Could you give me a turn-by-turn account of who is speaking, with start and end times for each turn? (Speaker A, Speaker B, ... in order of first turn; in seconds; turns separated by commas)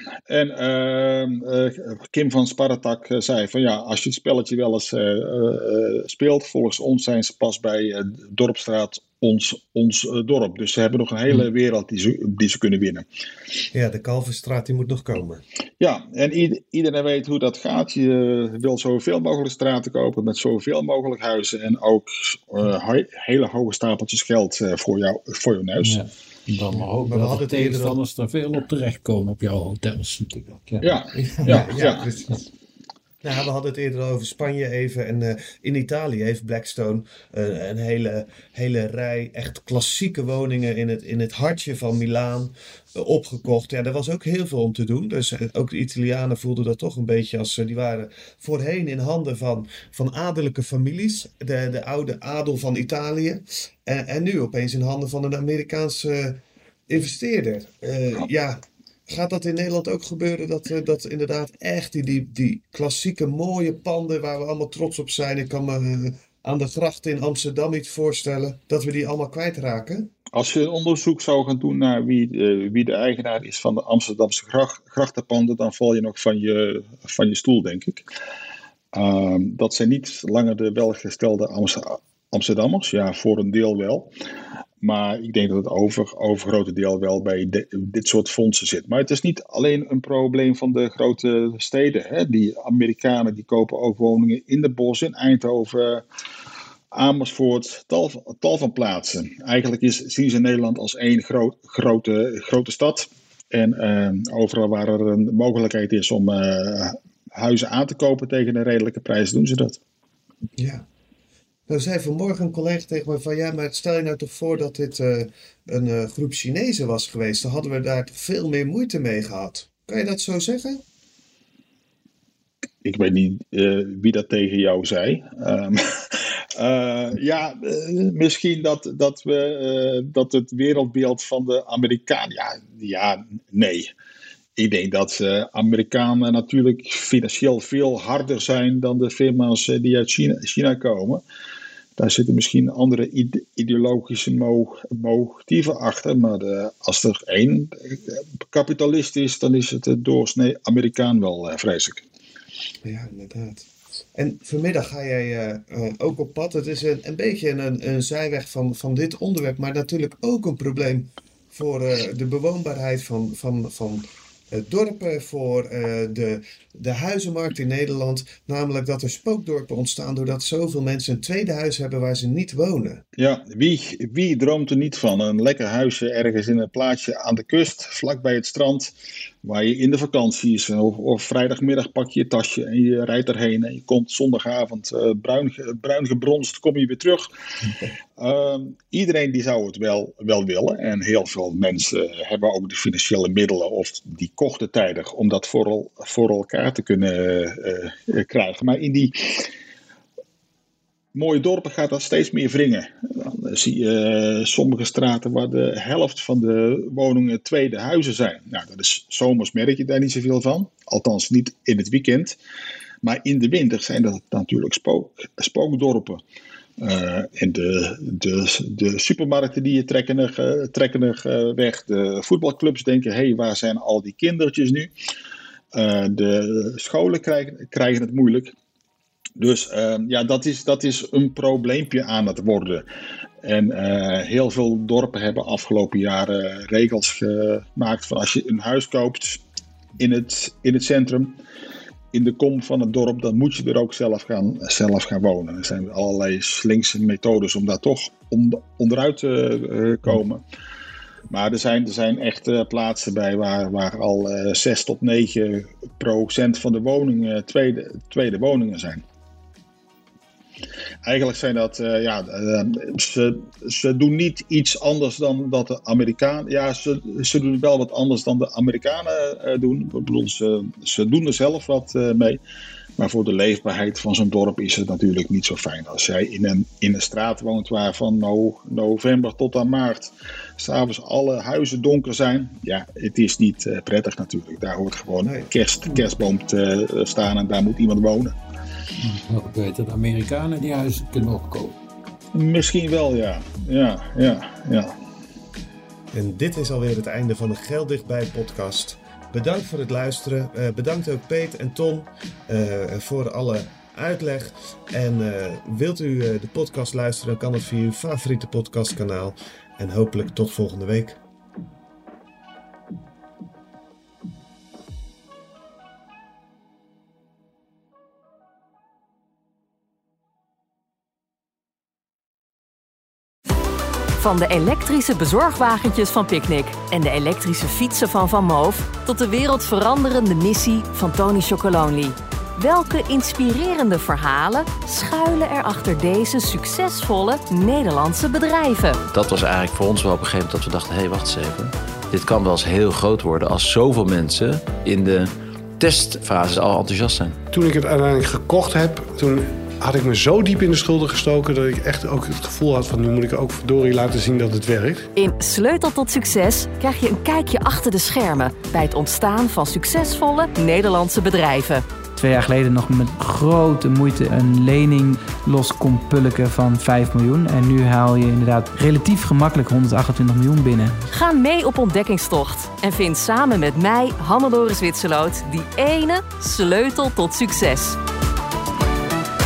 Speaker A: 0.3-13.0, Speaker B: 13.7-15.4, Speaker A: 15.8-26.0, Speaker C: 25.8-32.4, Speaker B: 27.1-28.0, Speaker A: 30.8-32.1, Speaker B: 31.1-32.4, Speaker B: 33.2-70.1, Speaker A: 70.3-78.0, Speaker A: 78.9-84.1, Speaker A: 84.8-96.0, Speaker A: 96.9-109.8, Speaker B: 110.6-110.8, Speaker B: 111.7-120.8, Speaker A: 122.8-133.9, Speaker A: 134.6-141.2, Speaker A: 142.0-152.0, Speaker B: 152.8-173.0, Speaker A: 173.2-187.3, Speaker A: 188.2-199.5, Speaker A: 201.1-212.4, Speaker A: 213.0-216.2, Speaker A: 216.8-224.9, Speaker A: 225.7-228.5, Speaker A: 229.4-232.8, Speaker A: 233.4-239.4, Speaker A: 240.0-241.4, Speaker A: 242.1-250.4, Speaker A: 251.3-259.0, Speaker A: 261.0-272.4, Speaker A: 273.0-288.4, Speaker C: 289.0-291.8, Speaker A: 292.3-295.0, Speaker B: 296.1-311.2, Speaker D: 324.2-339.0, Speaker E: 339.1-347.4, Speaker F: 347.5-355.1, Speaker D: 355.1-361.9, Speaker G: 362.1-371.0, Speaker D: 371.1-378.0